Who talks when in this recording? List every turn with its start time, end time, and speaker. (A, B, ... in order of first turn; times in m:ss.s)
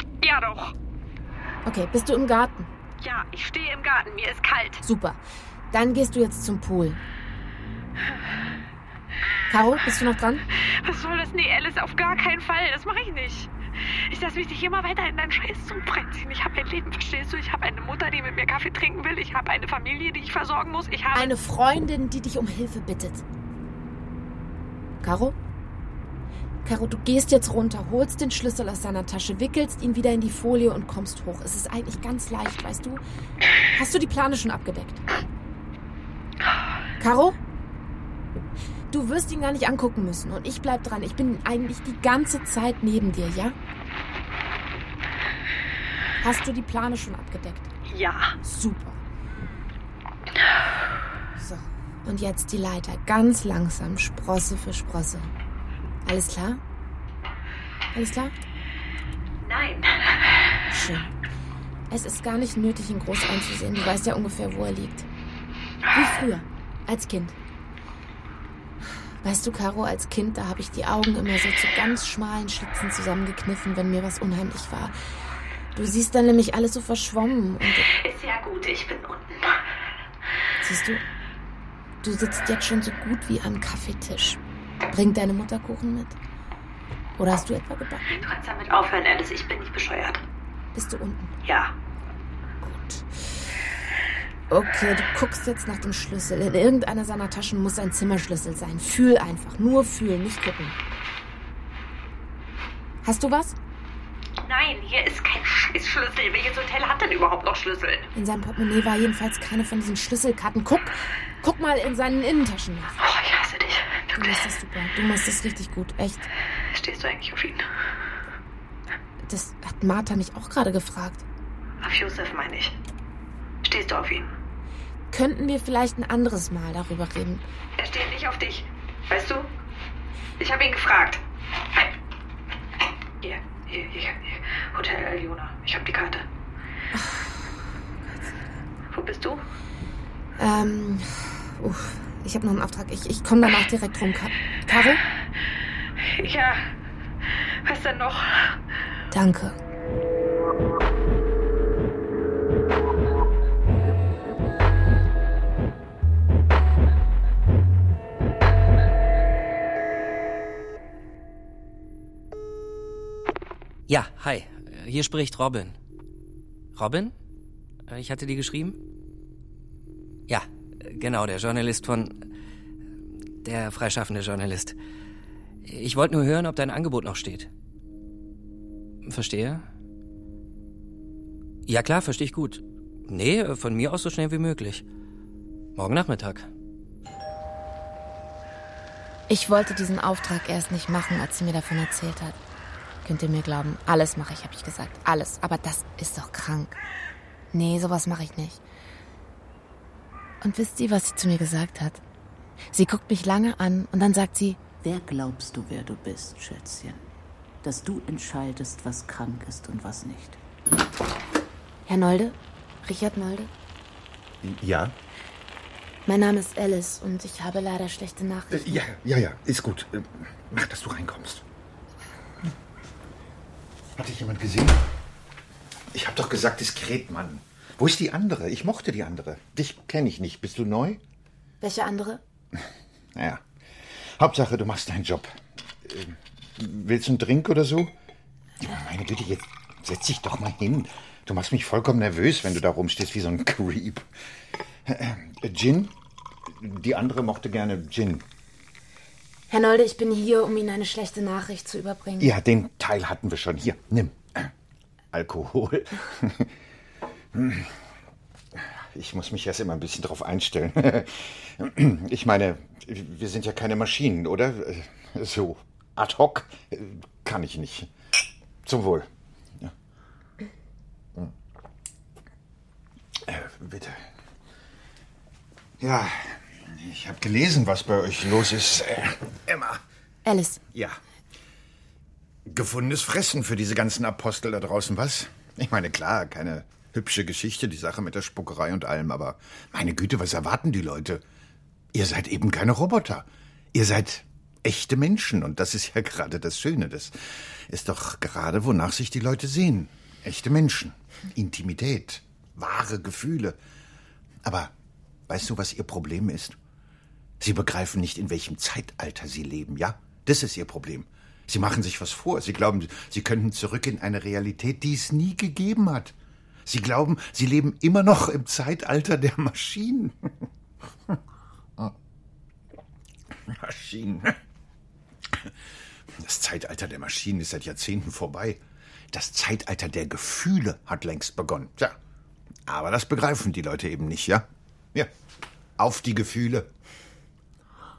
0:00.2-0:00.7 A
0:01.6-0:02.7 B
0:03.0-0:04.8 A
0:04.8-0:05.2 B
0:05.7-0:07.0 B
0:09.5-0:10.4 B
0:10.5-0:13.5 A
0:14.1-0:21.3 A
0:21.1-0:23.2 B
0:25.0-0:25.4 B
0:26.6-0:33.0 B
0:33.7-0:35.0 B
0:37.0-0:37.4 B
0:38.9-0:43.6 B
0:46.2-0:47.7 B
0:47.9-0:48.3 A
0:48.4-0:49.0 B
0:51.4-0:55.3 B
0:56.0-0:56.6 B
0:57.9-0:58.4 B
0:59.4-1:00.1 A
1:00.7-1:01.1 B
1:01.9-1:05.1 B
1:05.9-1:07.4 B
1:09.2-1:14.9 B
1:15.7-1:17.9 B
1:17.8-1:19.6 A
1:20.6-1:21.0 B
1:22.0-1:26.2 B
1:27.2-1:28.2 B
1:28.1-1:30.2 A
1:30.7-1:31.4 B
1:31.4-1:31.7 A
1:32.8-1:33.0 B
1:34.5-1:40.8 B
1:43.0-1:43.6 B
1:44.4-1:48.1 A
1:48.1-1:53.0 B
1:53.0-1:54.5 A
1:54.1-1:56.2 B
1:56.7-1:57.6 A
1:59.2-2:01.2 B
2:01.8-2:02.7 A
2:03.6-2:04.3 A
2:05.1-2:07.4 B
2:07.8-2:09.5 A
2:10.4-2:11.2 A
2:13.2-2:16.2 A
2:16.9-2:17.4 B
2:18.1-2:18.3 B
2:18.9-2:19.4 A
2:20.4-2:25.0 B
2:26.0-2:26.7 A
2:27.3-2:28.6 A
2:29.1-2:29.6 B
2:43.9-2:45.8 C
2:46.7-2:47.1 C
2:47.9-2:48.8 C
2:50.3-2:52.1 C
2:53.4-2:54.8 C
2:55.6-2:57.5 C
2:59.0-2:59.6 C
3:01.7-3:04.8 C
3:05.7-3:06.5 C
3:09.3-3:12.4 B
3:13.0-3:16.8 B
3:17.5-3:18.6 B
3:20.4-3:22.0 B
3:22.7-3:24.6 B
3:24.7-3:27.0 D
3:27.6-3:30.4 D
3:31.9-3:33.5 B
3:34.4-3:34.9 E
3:36.0-3:38.8 B
3:38.5-3:41.4 E
3:44.0-3:44.8 E
3:45.9-3:51.0 E
3:51.6-3:52.2 B
3:52.5-3:53.4 E
3:54.2-3:57.9 E
3:58.6-4:04.1 E
4:04.8-4:05.9 E
4:06.4-4:08.2 E
4:09.5-4:12.3 B
4:12.2-4:14.5 E
4:15.1-4:16.5 E
4:17.3-4:17.8 E
4:18.5-4:27.9 E
4:28.6-4:29.1 E
4:33.2-4:34.1 E
4:35.8-4:39.8 E
4:40.2-4:40.6 B
4:40.7-4:41.0 E
4:42.4-4:51.2 E
4:51.9-5:03.6 E
5:04.4-5:04.7 E
5:05.3-5:06.6 E
5:07.4-5:16.1 E
5:16.6-5:20.4 E
5:23.4-5:24.4 E
5:26.2-5:28.6 E
5:29.1-5:32.0 E
5:32.6-5:35.1 E
5:35.8-5:36.7 E